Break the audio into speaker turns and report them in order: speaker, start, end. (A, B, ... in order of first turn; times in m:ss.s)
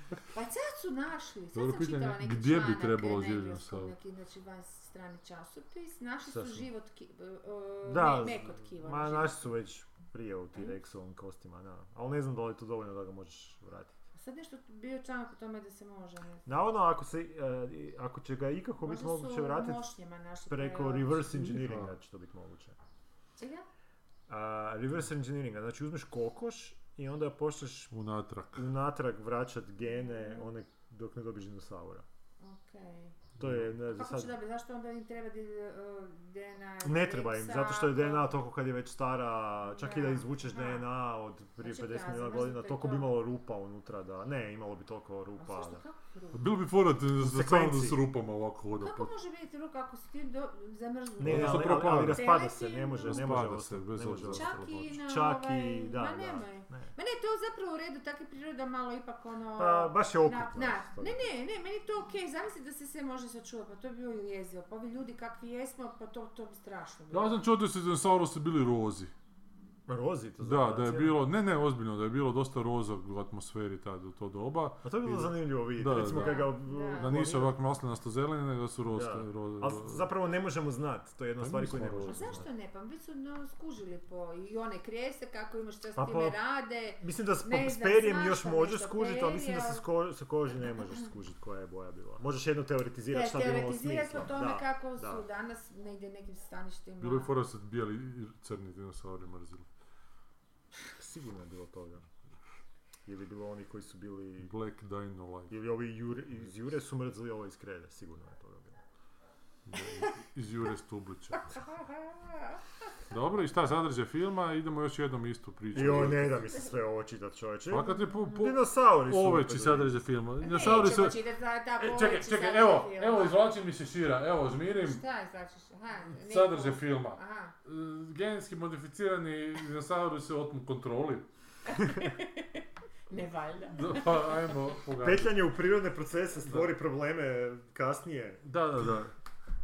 0:00.3-0:09.5 A
0:01.5-0:03.9 B
0:06.3-0:06.6 C
0:07.8-0:14.0 C
0:14.1-0:16.4 A
0:16.4-0:19.8 C
0:18.8-0:21.5 A
0:20.5-0:22.8 C
0:21.3-0:21.9 B
0:23.4-0:23.6 A
0:24.3-0:27.9 C
0:27.9-0:28.6 B
0:28.6-0:32.0 C
0:29.8-0:30.5 A
0:32.4-0:33.2 A
0:33.4-0:33.7 B
0:33.4-0:34.4 C
0:33.8-0:38.3 A
0:36.8-0:45.8 C
0:39.7-0:40.9 A
0:41.6-0:43.2 A
0:45.4-0:46.5 A
0:46.3-0:49.1 B
0:47.2-0:48.0 C
0:48.8-0:53.4 A
0:51.2-0:52.4 B
0:51.2-0:56.9 C
0:53.0-0:54.6 B
0:54.3-1:07.4 A
0:59.6-1:01.3 C
1:07.1-1:09.1 B
1:09.9-1:11.3 C
1:10.4-1:20.1 B
1:14.8-1:17.6 C
1:16.0-1:17.2 A
1:18.9-1:22.5 C
1:21.4-1:22.4 B
1:22.1-1:29.8 A
1:26.0-1:26.4 C
1:27.0-1:35.2 C
1:33.1-1:37.3 A
1:37.0-1:39.7 B
1:41.0-1:42.1 C
1:43.0-1:44.5 C
1:44.4-1:45.6 B
1:45.5-1:48.8 C
1:49.7-1:51.5 B
1:51.3-1:52.6 A
1:53.1-1:56.4 B
1:55.7-1:59.9 C
1:57.7-2:01.2 B
2:00.4-2:03.5 A
2:01.8-2:05.0 B
2:04.7-2:07.5 A
2:06.1-2:11.3 B
2:11.7-2:14.5 A
2:13.7-2:15.4 B
2:15.0-2:18.4 C
2:18.4-2:19.1 B